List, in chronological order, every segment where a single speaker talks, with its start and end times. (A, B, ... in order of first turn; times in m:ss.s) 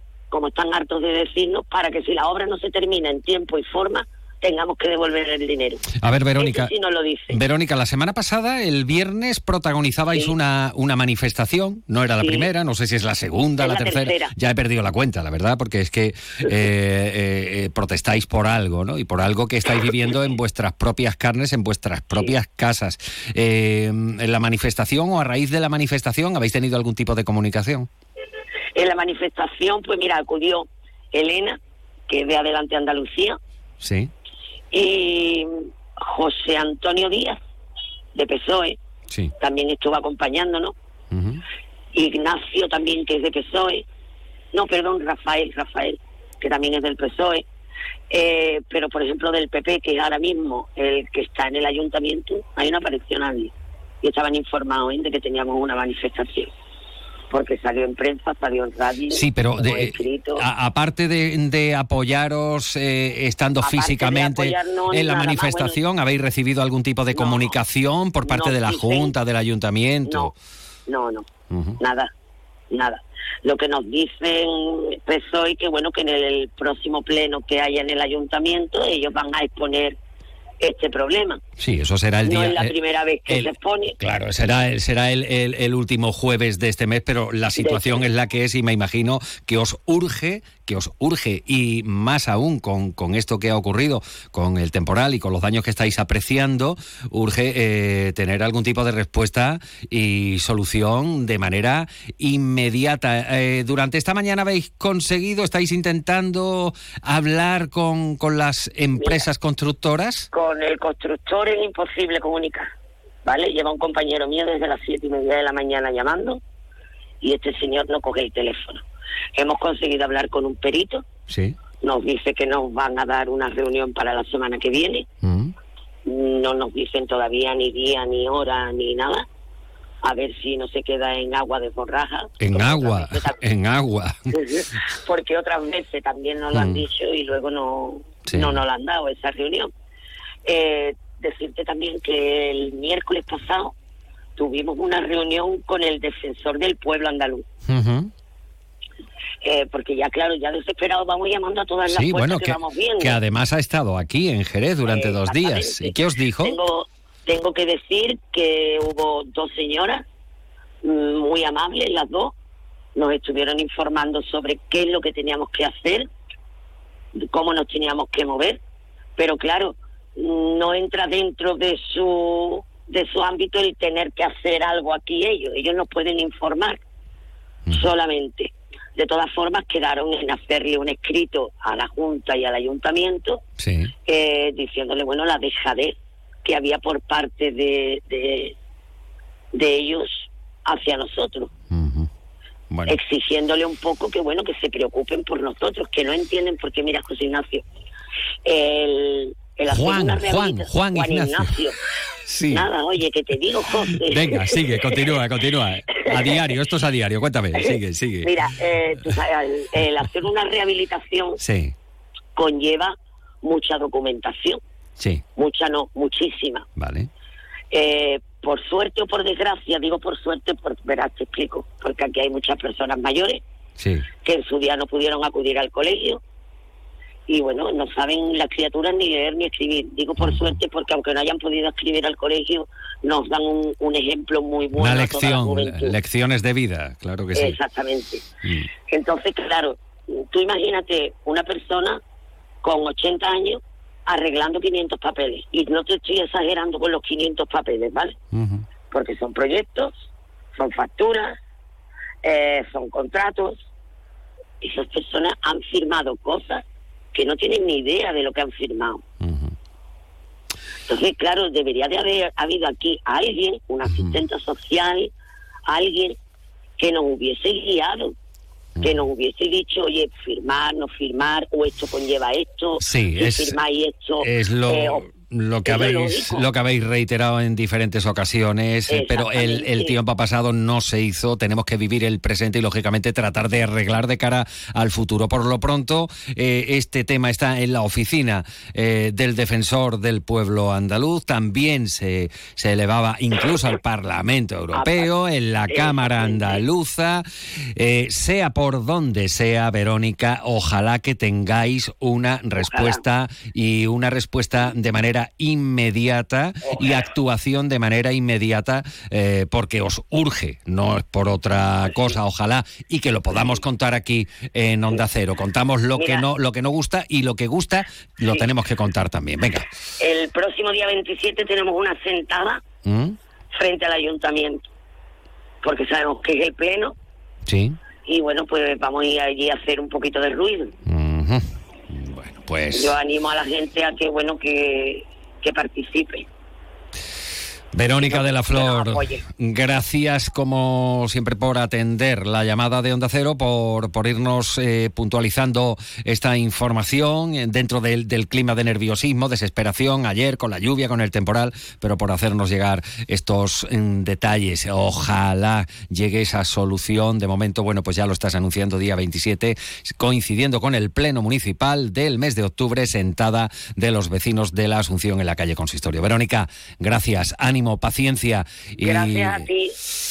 0:00.3-0:05.9 A
0:06.0-0:06.7 B
0:06.4-0:07.4 A
0:07.3-0:27.9 B
0:12.2-0:12.5 A
0:13.6-0:14.3 A
0:28.7-0:31.6 A
0:32.1-0:33.4 A
0:33.8-0:34.1 B
0:34.7-0:35.5 A
0:36.0-0:37.4 A
0:38.1-0:38.8 A
0:39.4-0:40.7 A
0:41.1-0:41.4 B
0:41.9-0:43.8 A
0:44.5-0:47.4 A
0:48.1-0:56.5 A
0:57.3-1:00.4 A
0:59.1-1:10.4 B
1:03.6-1:05.8 A
1:07.1-1:07.5 A
1:08.2-1:09.1 A
1:10.9-1:11.2 A
1:11.5-1:11.8 B
1:11.8-1:12.1 A
1:12.7-1:20.0 A
1:20.6-1:21.4 A
1:21.6-1:22.7 B
1:22.2-1:24.0 A
1:23.3-1:50.3 B
1:27.6-1:28.0 A
1:50.3-1:52.7 A
1:53.2-1:56.4 A
1:57.2-1:58.8 A
1:59.4-2:01.0 A
2:01.3-2:01.5 B
2:01.8-2:05.0 A
2:05.2-2:05.5 B
2:06.0-2:09.2 A
2:10.0-2:13.4 A
2:12.4-2:14.3 B
2:14.3-2:19.7 A
2:16.5-2:16.8 B
2:18.3-2:18.6 B
2:20.4-2:23.7 A
2:24.4-2:27.4 A
2:27.7-2:28.1 B
2:29.4-2:33.2 A
2:31.9-2:36.6 B
2:34.9-2:40.0 A
2:40.8-2:42.3 A
2:43.0-2:46.1 A
2:47.3-2:48.6 A
2:49.2-2:56.8 A
2:57.7-3:03.4 A
3:03.6-3:03.9 B
3:04.0-3:08.5 A
3:09.5-3:11.5 A
3:11.7-3:12.1 B
3:12.7-3:13.0 B
3:12.9-3:17.6 A
3:18.4-3:21.8 A
3:19.7-3:21.5 B
3:22.3-3:22.6 B
3:22.5-3:24.9 A
3:24.0-3:28.3 B
3:26.0-3:26.5 A
3:27.6-3:31.4 A
3:31.4-3:31.7 B
3:32.4-3:34.6 A
3:35.4-3:36.6 A
3:36.8-3:37.1 B
3:37.7-3:43.4 A
3:43.8-3:44.0 B
3:44.2-3:46.2 A
3:47.3-3:56.0 A
3:50.2-3:50.5 B
3:54.8-3:57.6 B
3:57.4-3:58.2 A
3:58.9-4:02.0 A
4:02.6-4:08.2 A
4:08.3-4:08.6 B
4:08.9-4:09.9 A
4:10.6-4:11.4 A
4:12.2-4:13.6 A
4:14.6-4:16.6 A
4:17.1-4:19.0 A
4:19.2-4:19.5 B
4:20.9-4:25.1 A
4:23.9-4:24.2 B
4:25.7-4:26.2 A
4:26.8-4:28.1 A
4:28.8-4:29.0 B
4:28.8-4:35.0 A
4:32.8-4:33.6 B
4:34.2-4:57.2 B
4:35.7-4:36.5 A
4:38.9-4:39.9 A
4:54.7-4:55.1 A
4:55.7-4:56.6 A
4:57.8-5:19.7 B
5:02.6-5:03.0 A
5:06.7-5:07.0 A
5:16.0-5:16.2 A
5:20.0-5:22.6 A
5:22.8-5:23.2 B
5:23.5-5:24.6 A
5:25.6-5:26.9 A
5:27.5-5:27.8 B
5:28.0-5:30.7 A
5:30.9-5:32.9 B
5:32.7-5:36.2 A
5:37.7-6:09.4 B
5:38.0-5:39.2 A
6:08.8-6:09.7 A